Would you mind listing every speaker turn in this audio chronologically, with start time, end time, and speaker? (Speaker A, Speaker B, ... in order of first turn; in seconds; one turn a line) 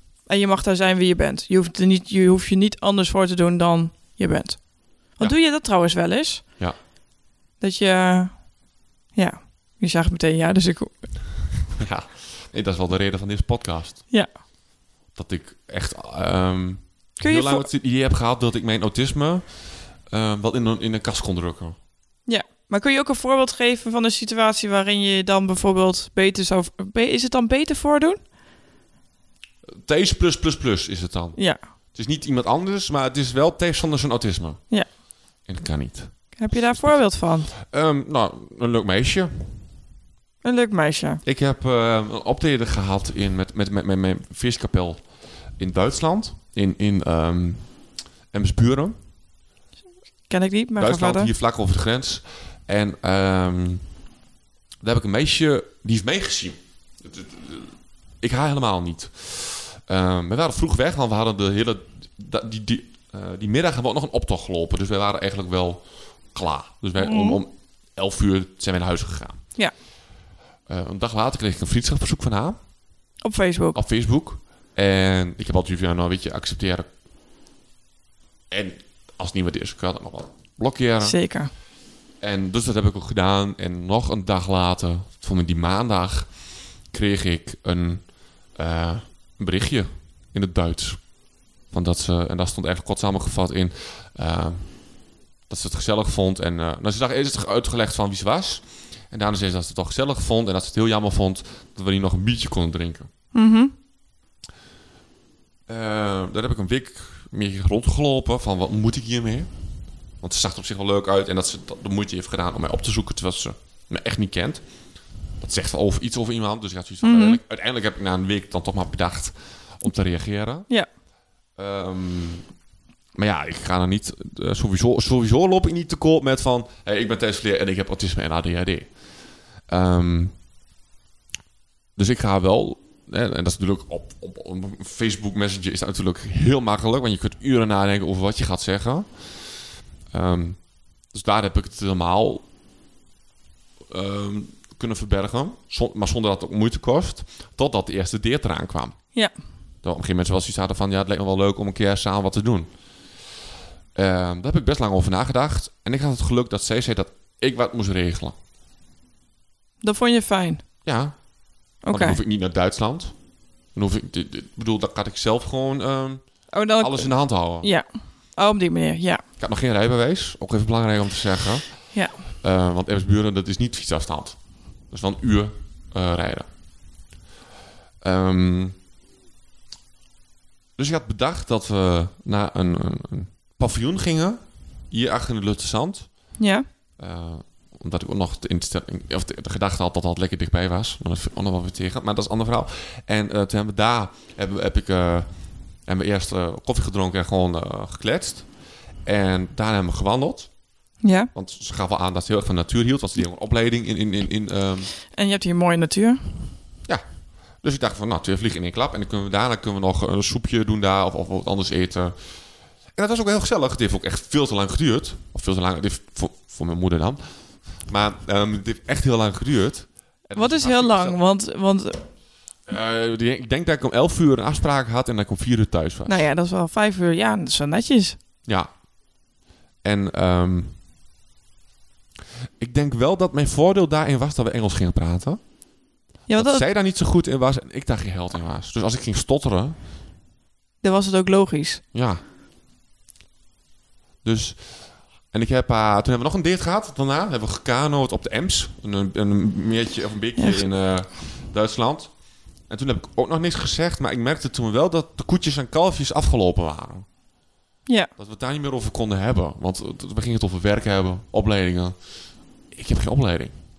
Speaker A: 0.2-6.5
Speaker A: 7.6-8.5
Speaker A: 9.1-11.4
Speaker B: 11.8-14.1
Speaker B: 15.1-21.8
Speaker A: 17.2-17.7
Speaker A: 22.3-28.2
Speaker B: 29.6-34.6
Speaker B: 35.4-39.7
Speaker A: 36.3-37.5
Speaker A: 40.4-41.2
Speaker B: 41.2-47.7
Speaker B: 48.3-49.0
Speaker A: 50.3-51.3
Speaker B: 50.8-53.9
Speaker B: 54.8-69.5
Speaker A: 67.0-67.4
Speaker B: 70.7-72.6
Speaker A: 73.2-73.8
Speaker B: 73.7-76.9
Speaker B: 78.5-81.2
Speaker A: 81.0-81.5
Speaker B: 82.2-91.1
Speaker B: 91.7-94.9
Speaker B: 95.5-103.1
Speaker A: 103.3-103.7
Speaker B: 105.7-109.5
Speaker B: 110.2-114.6
Speaker B: 115.4-120.7
Speaker A: 117.0-117.4
Speaker B: 121.6-122.5
Speaker B: 123.2-129.0
Speaker B: 129.7-130.3
Speaker B: 132.0-139.5
Speaker B: 140.1-142.4
Speaker B: 143.9-149.0
Speaker B: 149.8-152.7
Speaker B: 153.9-158.4
Speaker A: 159.8-160.6
Speaker B: 160.8-163.2
Speaker A: 161.8-162.2
Speaker B: 163.7-167.7
Speaker A: 166.5-169.2
Speaker B: 169.4-176.5
Speaker A: 171.9-172.2
Speaker B: 178.0-178.8
Speaker B: 180.8-186.2
Speaker A: 186.4-186.7
Speaker B: 187.0-195.3
Speaker B: 195.8-198.5
Speaker B: 199.0-200.6
Speaker A: 201.0-201.3
Speaker B: 201.3-204.9
Speaker A: 205.1-206.5
Speaker B: 207.6-212.2
Speaker B: 212.9-221.2
Speaker A: 220.4-222.1
Speaker B: 222.7-226.3
Speaker A: 226.1-228.2
Speaker B: 228.5-228.8
Speaker B: 229.8-230.8
Speaker B: 232.6-235.4
Speaker A: 236.3-236.7
Speaker B: 236.3-239.8
Speaker A: 240.8-241.8
Speaker B: 241.9-242.2
Speaker B: 244.2-257.1
Speaker A: 250.4-250.6
Speaker A: 257.9-258.1
Speaker B: 258.2-263.6